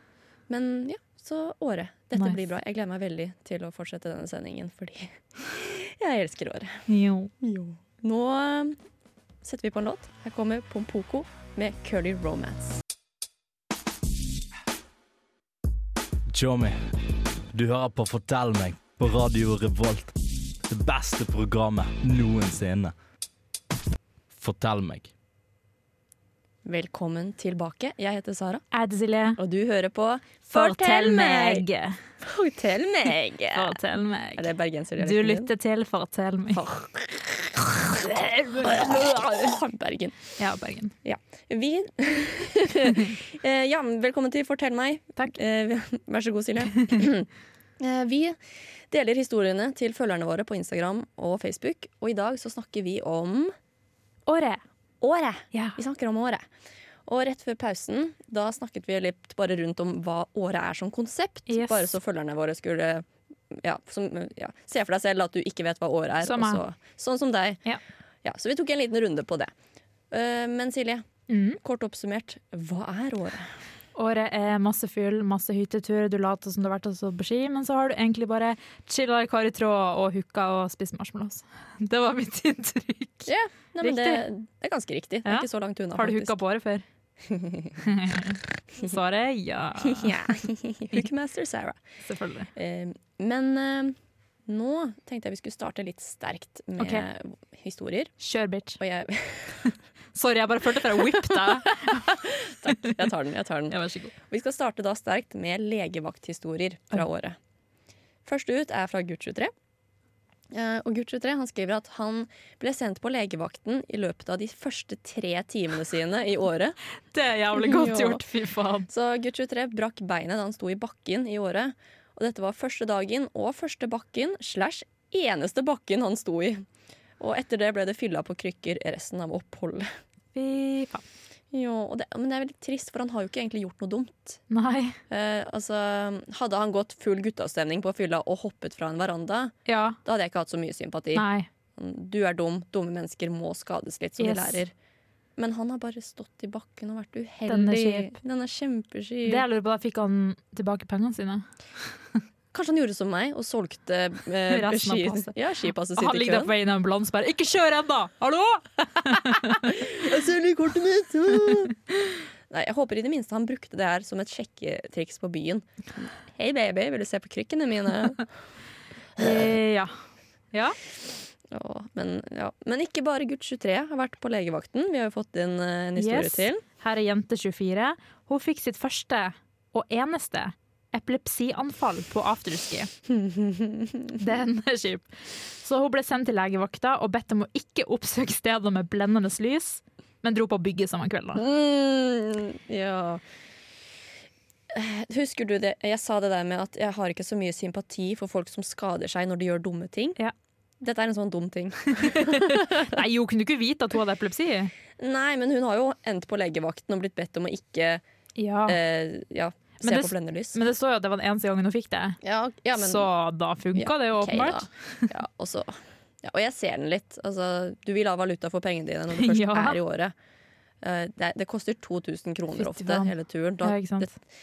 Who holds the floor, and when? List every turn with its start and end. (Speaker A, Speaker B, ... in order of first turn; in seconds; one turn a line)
Speaker A: 0.5-6.9
Speaker B: 6.9-7.3
Speaker A: 7.4-8.8
Speaker A: 9.4-12.8
Speaker C: 16.3-16.8
Speaker C: 17.5-22.9
Speaker C: 24.3-25.1
Speaker A: 26.6-28.6
Speaker B: 28.7-29.4
Speaker A: 29.4-31.6
Speaker B: 30.5-32.0
Speaker A: 32.2-33.8
Speaker B: 33.5-36.6
Speaker A: 34.3-35.5
Speaker A: 36.5-40.3
Speaker B: 38.1-38.6
Speaker B: 40.4-40.9
Speaker A: 41.0-47.3
Speaker A: 47.8-48.4
Speaker A: 48.9-53.5
Speaker B: 54.3-54.6
Speaker A: 55.0-56.4
Speaker B: 55.5-55.8
Speaker A: 57.0-67.6
Speaker B: 61.5-61.9
Speaker B: 66.2-66.6
Speaker A: 68.2-69.5
Speaker A: 70.1-71.0
Speaker B: 71.3-71.6
Speaker A: 71.6-73.5
Speaker B: 73.9-83.3
Speaker A: 83.2-86.4
Speaker B: 83.8-84.2
Speaker B: 85.2-86.8
Speaker A: 87.3-87.8
Speaker B: 87.8-90.2
Speaker A: 89.8-91.8
Speaker B: 92.0-92.5
Speaker A: 92.5-94.0
Speaker A: 94.5-98.1
Speaker B: 96.8-97.0
Speaker B: 98.2-98.8
Speaker A: 98.8-99.7
Speaker B: 100.1-102.1
Speaker A: 101.3-107.4
Speaker B: 103.7-104.1
Speaker A: 108.2-109.5
Speaker A: 110.5-116.8
Speaker B: 117.1-118.9
Speaker A: 117.5-118.2
Speaker A: 118.9-126.6
Speaker A: 127.2-129.9
Speaker B: 130.3-131.0
Speaker A: 131.5-134.4
Speaker B: 134.5-135.0
Speaker A: 135.1-141.2
Speaker B: 139.7-140.0
Speaker B: 141.1-141.5
Speaker A: 141.8-144.7
Speaker B: 144.2-144.6
Speaker A: 145.4-149.4
Speaker B: 147.5-148.1
Speaker B: 149.2-151.4
Speaker A: 152.5-156.5
Speaker B: 154.5-155.3
Speaker B: 155.9-159.9
Speaker A: 159.4-161.7
Speaker A: 162.5-168.2
Speaker B: 169.2-169.9
Speaker A: 171.5-176.6
Speaker B: 175.9-182.9
Speaker A: 183.1-184.2
Speaker B: 184.2-185.1
Speaker B: 185.6-191.4
Speaker A: 191.3-193.2
Speaker A: 194.7-200.2
Speaker A: 200.8-202.9
Speaker B: 202.0-204.7
Speaker A: 205.0-208.0
Speaker B: 208.4-208.8
Speaker A: 208.7-210.6
Speaker B: 209.8-212.2
Speaker A: 212.2-213.1
Speaker B: 212.7-215.1
Speaker A: 213.7-220.1
Speaker B: 219.2-219.8
Speaker A: 220.8-224.2
Speaker B: 222.6-223.1
Speaker B: 223.6-224.1